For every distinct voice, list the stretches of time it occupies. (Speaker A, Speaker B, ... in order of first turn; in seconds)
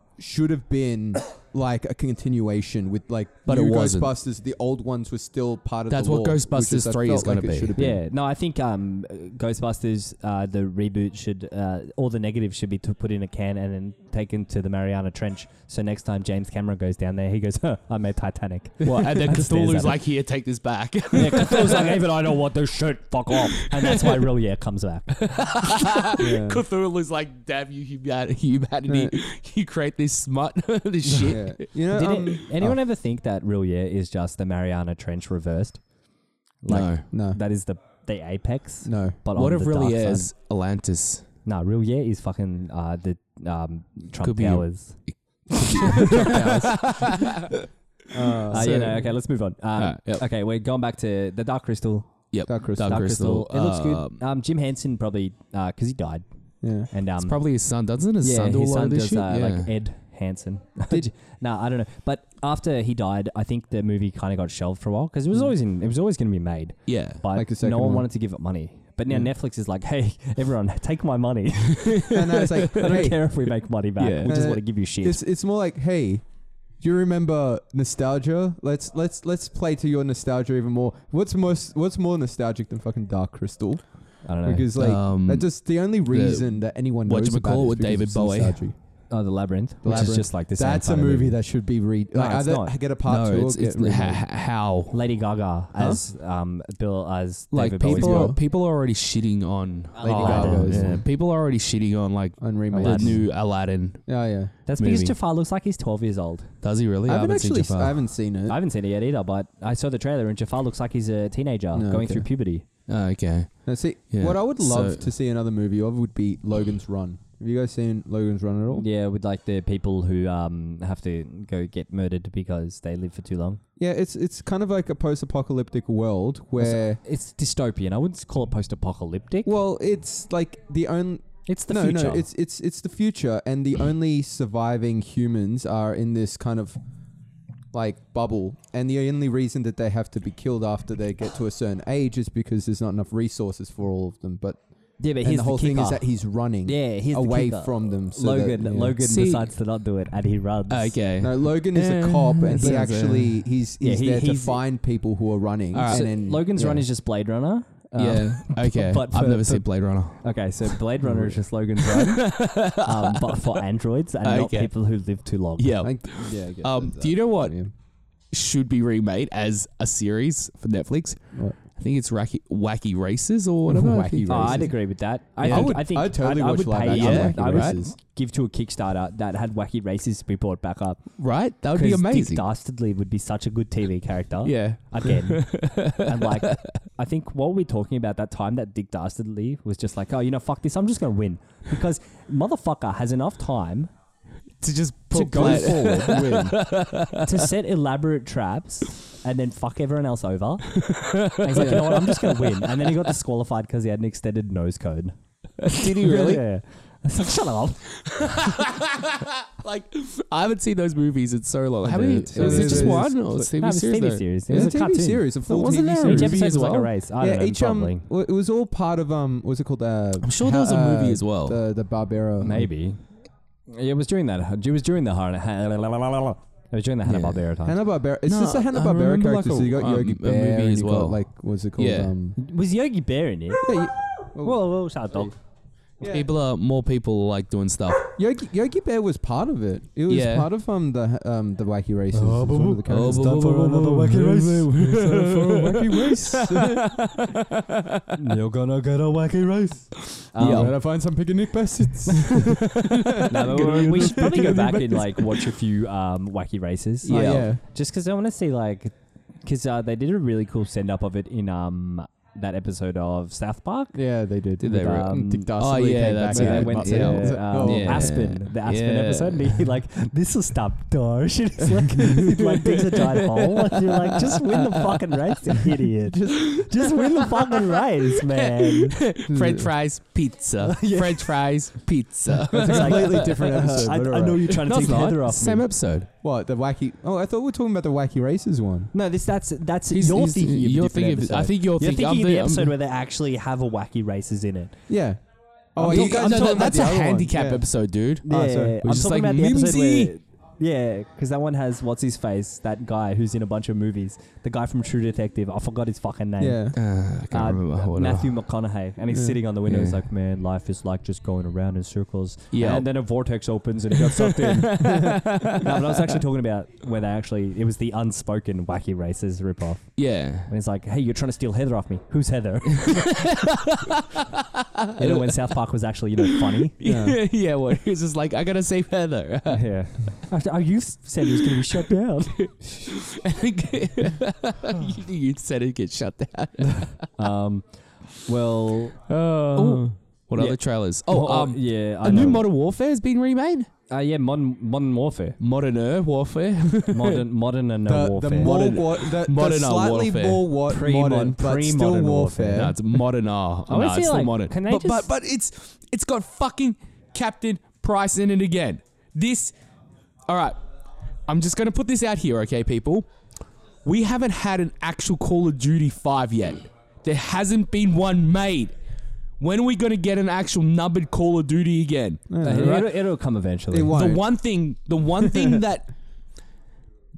Speaker A: 0.2-8.0, 26.2-26.6, 28.9-29.1, 31.2-32.8, 37.1-37.4, 38.8-39.2, 46.0-47.1, 48.1-48.8, 52.5-53.0, 56.6-56.9, 67.3-68.1, 72.1-73.3, 74.2-76.2, 76.8-88.7, 89.8-94.2, 97.9-98.4, 100.0-101.0, 102.4-103.3, 104.1-104.5, 107.0-108.6, 111.7-112.3, 113.6-118.8, 123.8-127.0, 129.4-136.8, 137.7-144.6, 145.2-149.0, 151.2-156.8, 161.0-161.3, 165.8-167.7, 173.7-174.8, 175.4-177.9, 195.1-196.6, 201.6-201.9, 212.3-213.5, 214.5-216.5, 217.2-222.7, 227.6-232.4, 233.6-234.6, 236.0-236.2, 238.2-243.5, 244.6-246.8, 250.4-254.6, 257.1-257.6, 263.9-268.1, 276.1-276.5, 279.3-279.7, 282.4-284.7, 286.2-288.9, 294.9-295.2, 295.7-297.6, 298.2-298.8, 306.4-306.8, 309.1-309.4, 326.8-327.2, 347.9-352.8, 372.3-372.9, 373.7-374.3
Speaker B: 3.5-4.1, 5.9-7.9, 18.8-22.0, 23.6-24.1, 25.2-31.6, 36.7-37.1, 39.3-41.2, 44.2-47.6, 48.5-49.1, 49.8-50.2, 52.3-54.2, 57.2-59.7, 66.9-67.2, 71.8-73.1, 74.0-74.5, 84.8-88.6, 89.8-90.2, 93.0-95.0, 97.5-104.0, 104.7-105.2, 106.6-108.0, 112.9-115.0, 149.0-149.5, 150.7-153.4, 155.7-156.1, 158.0-160.8, 161.8-163.6, 164.2-164.7, 165.6-167.6, 168.3-174.7, 175.4-175.8, 176.9-177.8, 181.2-182.4, 184.4-186.7, 194.6-197.3, 200.8-203.0, 205.6-206.4, 208.0-214.7, 215.5-216.9, 220.2-221.6, 227.1-227.4, 228.2-231.2, 231.8-232.1, 236.0-238.1, 240.1-240.5, 242.9-248.1, 250.1-250.7, 252.2-255.4, 257.0-257.5, 264.6-269.6, 272.0-275.0, 276.3-277.7, 278.2-283.4, 284.6-286.1, 289.9-292.7, 295.8-298.2, 298.8-300.1, 306.7-308.4, 309.6-310.0, 312.5-312.9, 314.0-316.0, 320.0-320.5, 322.8-325.5, 326.2-329.6, 331.4-331.8, 332.4-337.1, 339.1-343.7, 345.4-347.2, 348.4-350.5, 352.5-359.5, 360.3-360.6, 361.3-363.1, 363.8-368.7, 369.4-372.9, 373.9-375.9
Speaker C: 7.8-20.0, 21.1-25.1, 31.9-35.8, 36.6-40.3, 41.5-45.0, 46.0-46.3, 48.5-52.1, 52.8-56.2, 56.9-57.4, 58.2-75.2, 84.2-84.7, 89.1-91.4, 92.1-92.7, 94.9-98.3, 99.9-100.9, 102.7-103.2, 104.7-106.5, 108.5-112.6, 118.7-123.6, 126.6-129.5, 131.5-132.3, 145.0-146.1, 146.6-150.9, 153.8-154.6, 155.9-159.6, 160.2-165.8, 174.3-181.0, 181.7-193.9, 195.1-196.1, 197.2-200.8, 201.4-205.1, 205.7-207.8, 211.8-215.3, 216.0-218.1, 222.4-223.0, 223.7-227.8, 232.4-233.8, 234.4-235.3, 242.1-245.2, 248.2-250.7, 253.3-258.9, 259.4-264.0, 264.7-265.5, 266.3-279.0, 280.6-281.3, 282.6-285.7, 288.9-294.7, 295.8-296.8, 298.2-306.7, 307.3-319.9, 320.5-323.0, 325.0-326.7, 329.5-332.8, 337.2-337.6, 338.2-342.5, 343.9-345.4, 346.9-348.5, 350.7-352.7, 353.7-355.1, 372.4-374.0